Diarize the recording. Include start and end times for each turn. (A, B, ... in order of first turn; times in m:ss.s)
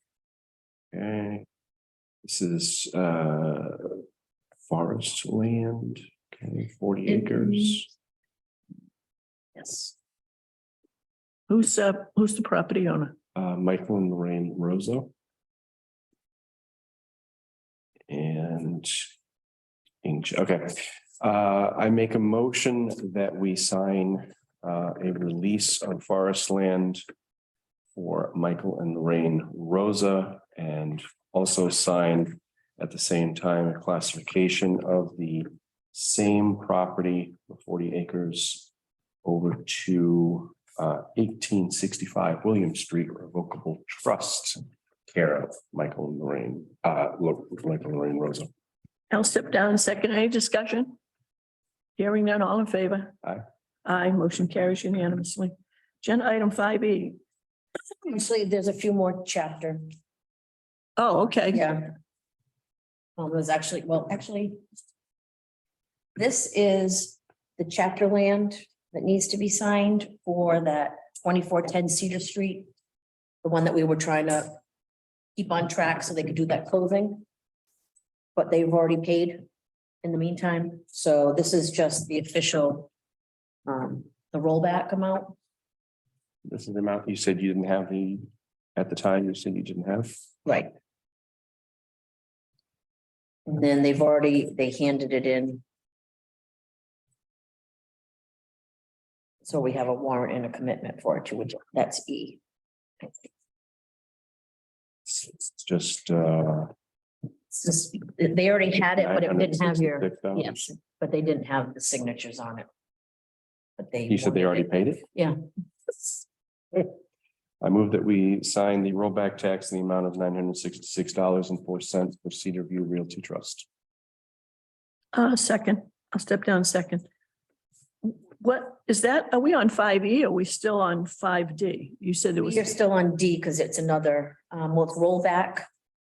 0:00.9-0:01.4 A
0:02.2-0:04.0 A
0:04.7-0:07.9 A
0:07.1-0:07.8 B
0:09.6-0:09.9 B
0:11.5-0:13.1 C
0:13.3-0:15.1 A
0:18.1-0:19.0 A
0:20.0-0:27.0 A
0:27.9-0:38.7 A
0:39.2-0:48.5 A
0:49.1-0:51.0 C
0:52.0-0:53.1 C
0:53.8-0:57.2 C
0:58.0-0:59.8 B
1:01.0-1:01.7 C
1:01.5-1:01.9 B
1:03.2-1:04.6 B
1:06.2-1:12.7 B
1:13.4-1:14.6 B
1:15.4-1:17.2 B
1:18.3-1:19.4 B
1:20.0-1:22.9 B
1:23.6-1:25.3 B
1:26.4-1:30.2 A
1:30.4-1:30.7 B
1:33.4-1:35.6 B
1:39.4-1:42.4 B
1:45.0-1:46.7 A
1:47.5-1:52.7 B
1:49.0-1:50.7 A
1:53.8-1:55.4 B
1:54.1-1:55.0 A
1:57.6-2:03.7 A
2:05.1-2:07.0 C
2:08.0-2:12.7 C
2:12.4-2:15.7 B